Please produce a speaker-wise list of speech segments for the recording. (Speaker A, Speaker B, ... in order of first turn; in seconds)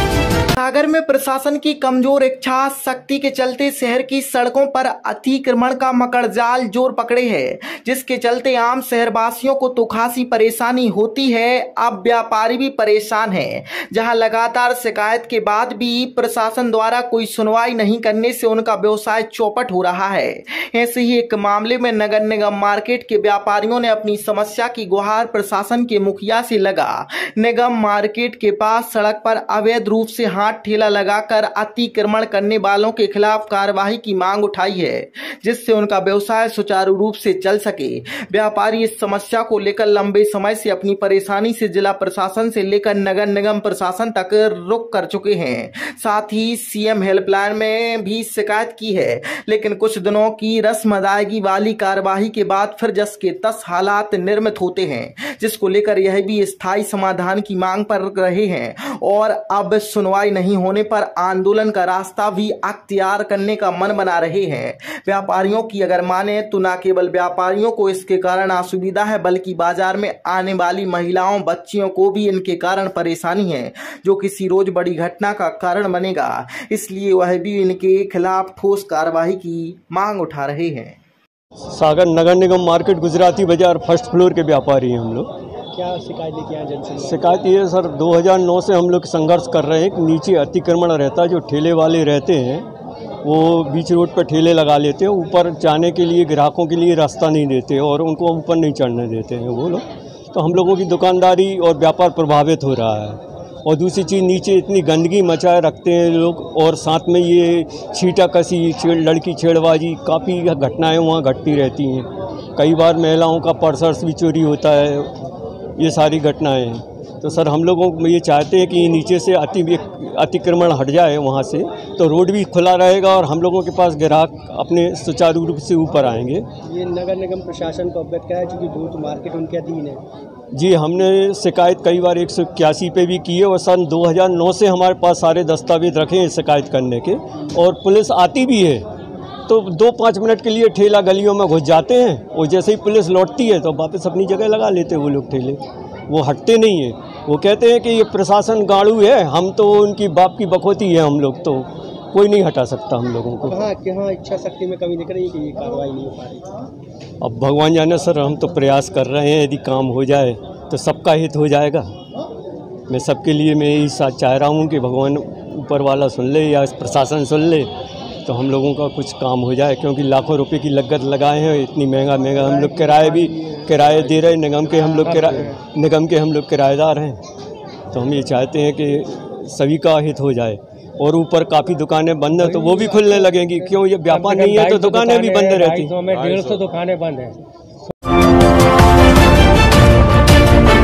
Speaker A: 0.6-81.0
Speaker B: 81.7-85.3, 87.0-92.7, 93.2-115.1, 115.8-126.5, 130.5-138.8, 139.5-153.7, 157.2-161.9, 162.9-167.7, 168.2-177.2, 177.9-185.9
Speaker C: 85.7-87.4, 126.6-130.0, 153.4-156.5, 172.4-175.6, 182.4-187.3